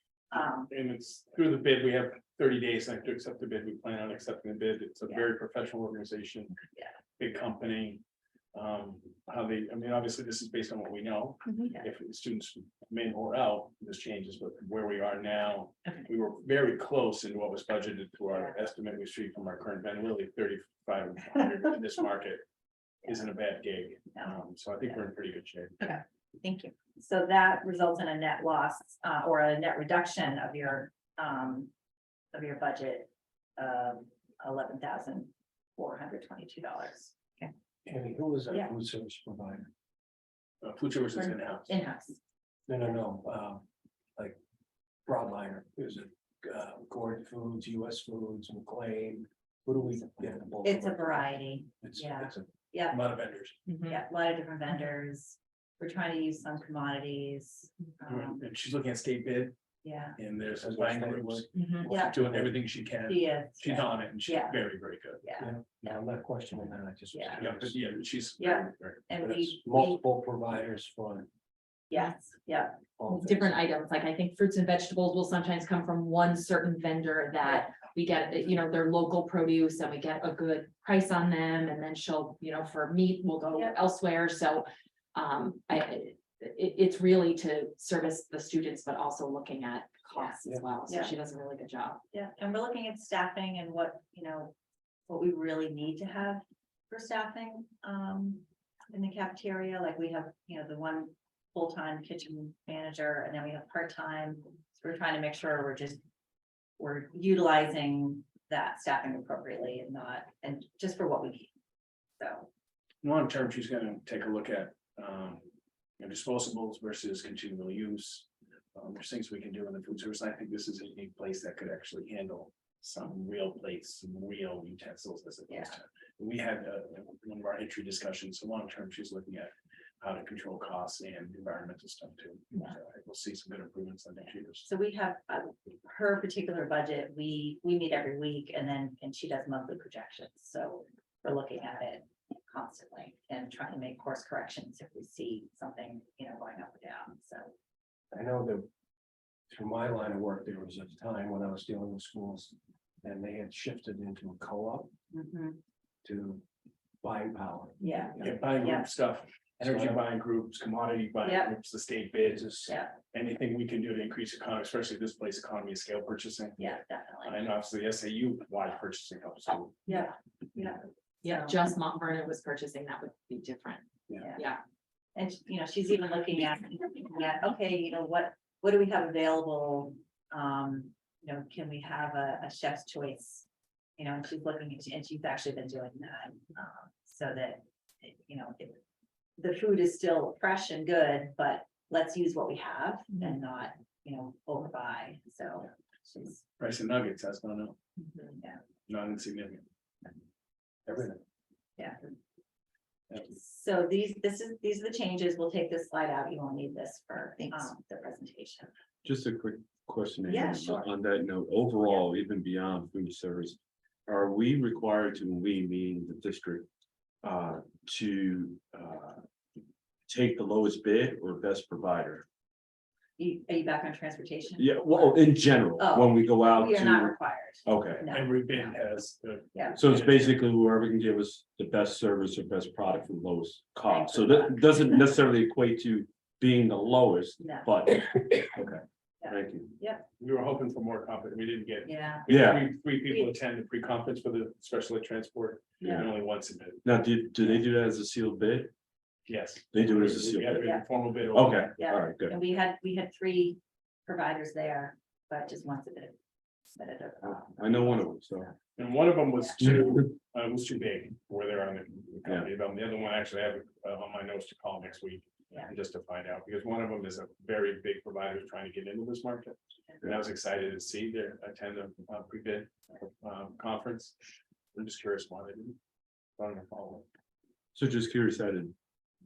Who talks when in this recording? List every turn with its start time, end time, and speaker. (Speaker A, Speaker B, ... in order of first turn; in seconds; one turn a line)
Speaker A: 0.3-0.7
Speaker B: 0.7-6.5
Speaker B: 7.2-8.0
Speaker B: 8.5-22.4
Speaker A: 18.3-18.6
Speaker B: 23.1-25.8
Speaker A: 24.1-24.4
Speaker A: 25.8-31.7
Speaker A: 32.3-37.5
Speaker C: 37.9-39.7
Speaker B: 40.6-41.7
Speaker A: 41.1-42.2
Speaker C: 42.7-43.6
Speaker C: 45.0-52.5
Speaker A: 50.6-53.0
Speaker B: 52.9-53.5
Speaker D: 53.7-54.0
Speaker A: 53.9-58.4
Speaker B: 58.0-59.5
Speaker A: 59.8-60.2
Speaker B: 60.1-65.2
Speaker C: 60.5-62.6
Speaker D: 61.5-61.9
Speaker A: 61.8-62.2
Speaker A: 63.1-64.6
Speaker A: 65.2-66.0
Speaker C: 65.4-67.9
Speaker A: 67.1-67.4
Speaker B: 67.4-69.0
Speaker A: 68.4-70.0
Speaker C: 69.2-71.3
Speaker A: 71.9-72.8
Speaker C: 73.0-73.6
Speaker D: 73.1-92.0
Speaker A: 83.5-83.8
Speaker A: 90.1-91.1
Speaker A: 92.1-94.5
Speaker A: 95.1-106.0
Speaker A: 106.8-111.5
Speaker A: 112.2-112.5
Speaker B: 113.0-115.5
Speaker B: 116.0-134.6
Speaker A: 125.5-125.8
Speaker A: 134.6-147.5
Speaker C: 148.1-148.7
Speaker C: 149.5-154.9
Speaker A: 155.1-155.6
Speaker C: 156.0-156.4
Speaker C: 157.0-158.6
Speaker A: 157.8-158.9
Speaker B: 158.2-162.6
Speaker C: 159.6-160.0
Speaker A: 161.2-161.5
Speaker C: 162.3-162.7
Speaker A: 162.7-163.0
Speaker B: 163.1-170.0
Speaker A: 166.6-167.5
Speaker A: 169.9-171.6
Speaker D: 171.2-174.6
Speaker A: 175.1-188.8
Speaker A: 189.4-196.4
Speaker B: 196.6-197.8
Speaker D: 198.0-198.3
Speaker B: 198.9-199.6
Speaker B: 200.8-201.2
Speaker A: 203.2-208.7
Speaker E: 209.0-216.7
Speaker A: 210.3-210.9
Speaker E: 217.2-219.2
Speaker E: 220.1-222.2
Speaker A: 223.2-228.8
Speaker E: 224.6-228.1
Speaker B: 228.1-230.3
Speaker A: 229.5-229.8
Speaker E: 229.7-239.7
Speaker A: 233.9-235.1
Speaker A: 237.4-237.7
Speaker A: 239.2-240.1
Speaker B: 240.2-246.8
Speaker A: 241.8-242.3
Speaker E: 242.3-242.7
Speaker A: 243.1-243.3
Speaker A: 245.8-246.0
Speaker E: 245.8-246.2
Speaker E: 246.8-248.7
Speaker B: 249.3-251.6
Speaker E: 249.7-252.3
Speaker A: 250.5-250.8
Speaker A: 251.8-258.5
Speaker E: 257.2-258.5
Speaker B: 258.8-269.6
Speaker E: 262.2-262.5
Speaker B: 270.1-274.1
Speaker B: 274.7-275.8
Speaker B: 276.4-277.1
Speaker E: 277.7-278.7